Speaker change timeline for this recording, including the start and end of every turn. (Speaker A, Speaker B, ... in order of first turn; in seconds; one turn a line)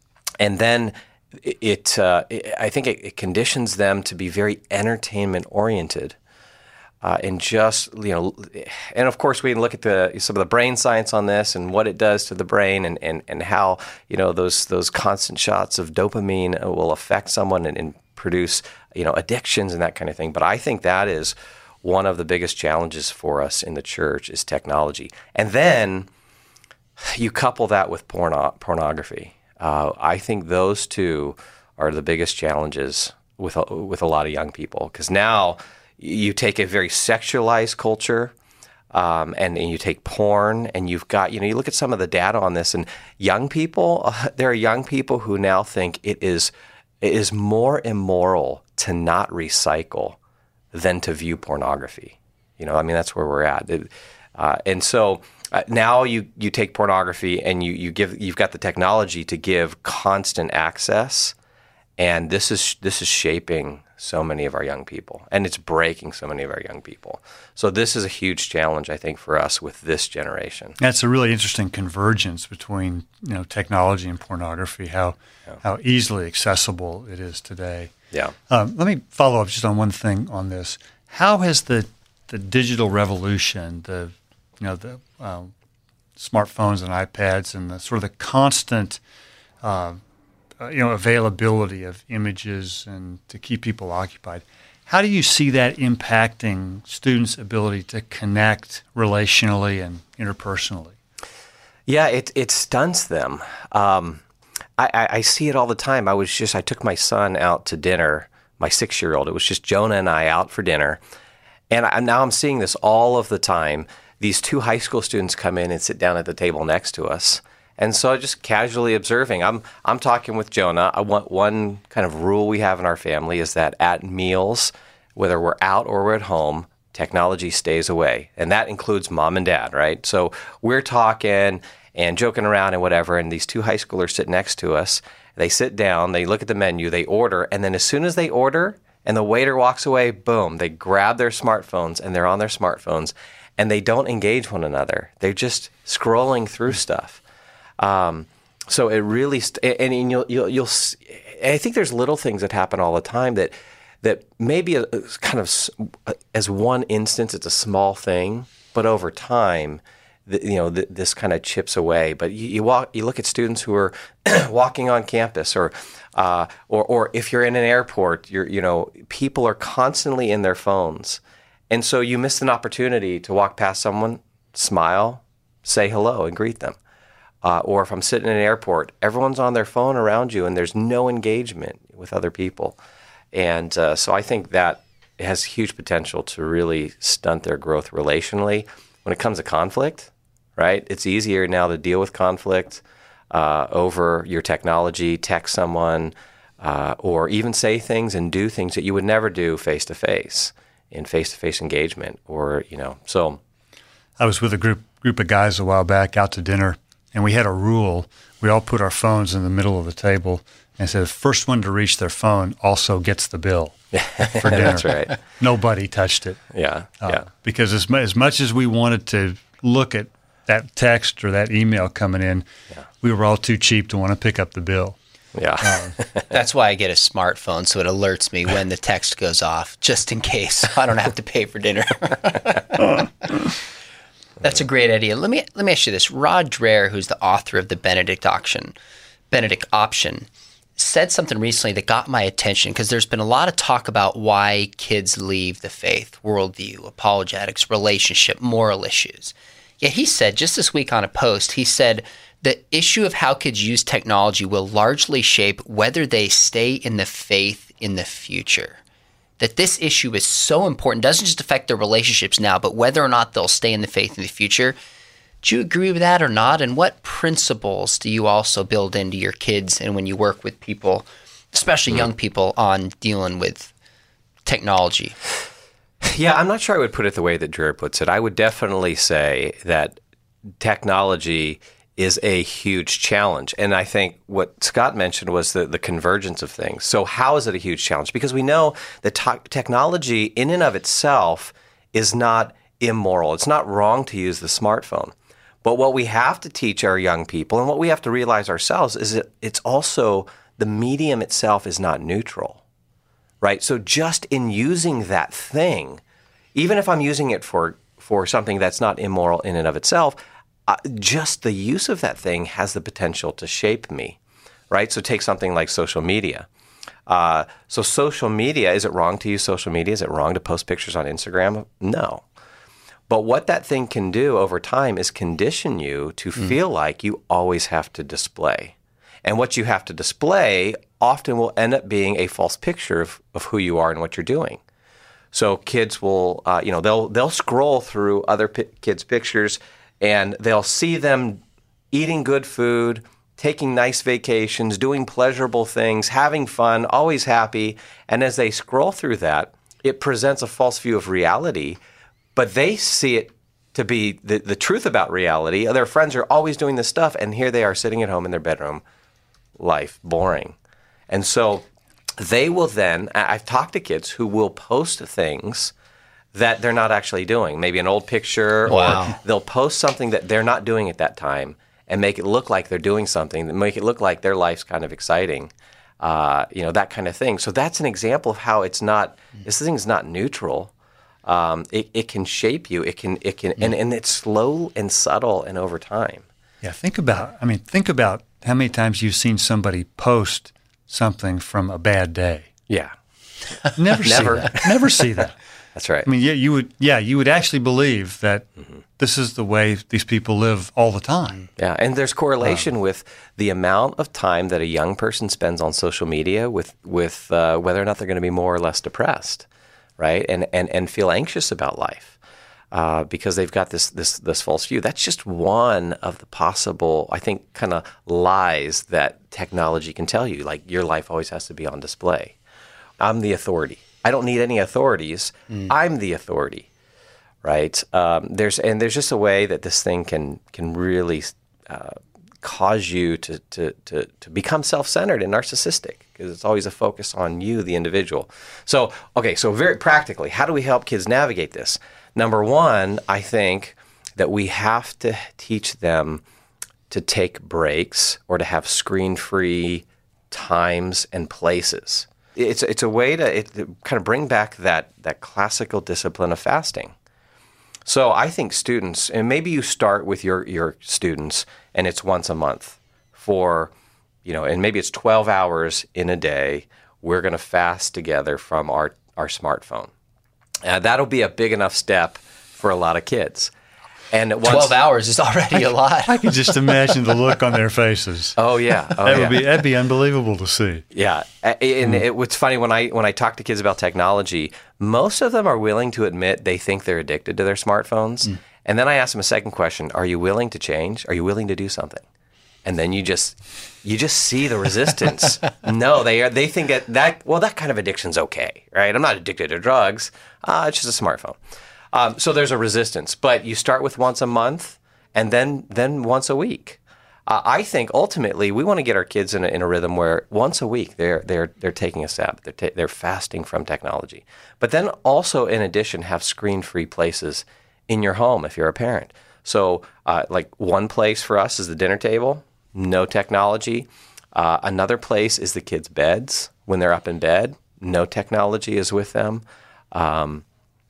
Speaker A: 0.4-6.2
Speaker A: 7.0-26.1
Speaker A: 27.0-38.3
Speaker A: 38.9-50.2
Speaker A: 50.7-61.3
Speaker A: 62.0-70.8
Speaker B: 70.8-77.9
Speaker B: 78.5-85.5
Speaker B: 86.2-89.0
Speaker B: 89.6-90.0
Speaker B: 90.6-100.9
Speaker A: 101.9-104.2
Speaker A: 104.8-111.0
Speaker A: 111.7-147.2
Speaker A: 147.8-176.8
Speaker A: 177.4-182.8
Speaker A: 183.3-203.4
Speaker B: 204.2-216.4
Speaker A: 213.9-215.2
Speaker A: 216.5-217.3
Speaker B: 217.0-222.4
Speaker B: 223.0-224.9
Speaker A: 225.3-226.3
Speaker B: 225.6-225.9
Speaker C: 226.3-233.5
Speaker C: 234.4-238.7
Speaker C: 239.3-258.8
Speaker C: 259.4-264.8
Speaker C: 265.4-273.7
Speaker C: 274.4-275.1
Speaker A: 276.0-280.0
Speaker A: 280.6-302.6
Speaker A: 303.4-306.0
Speaker A: 306.5-314.2
Speaker A: 314.7-316.5
Speaker A: 317.1-322.2
Speaker A: 323.1-334.6
Speaker A: 335.3-351.8
Speaker A: 352.3-358.8
Speaker A: 359.6-360.6
Speaker A: 361.1-361.6
Speaker A: 362.2-365.7
Speaker A: 366.3-380.7
Speaker C: 368.7-369.1
Speaker A: 381.2-386.2
Speaker B: 386.6-392.5
Speaker B: 393.8-395.4
Speaker A: 394.0-394.7
Speaker A: 395.7-396.1
Speaker B: 396.0-401.5
Speaker A: 401.6-409.5
Speaker A: 410.0-412.1
Speaker A: 412.7-422.4
Speaker A: 423.0-426.7
Speaker A: 427.4-446.2
Speaker A: 446.9-456.9
Speaker A: 457.8-463.7
Speaker A: 464.2-469.9
Speaker A: 470.6-473.5
Speaker A: 474.1-474.7
Speaker C: 474.4-476.3
Speaker B: 476.1-478.4
Speaker A: 478.4-479.4
Speaker B: 479.0-480.9
Speaker A: 480.9-492.0
Speaker A: 492.6-501.4
Speaker A: 501.9-530.4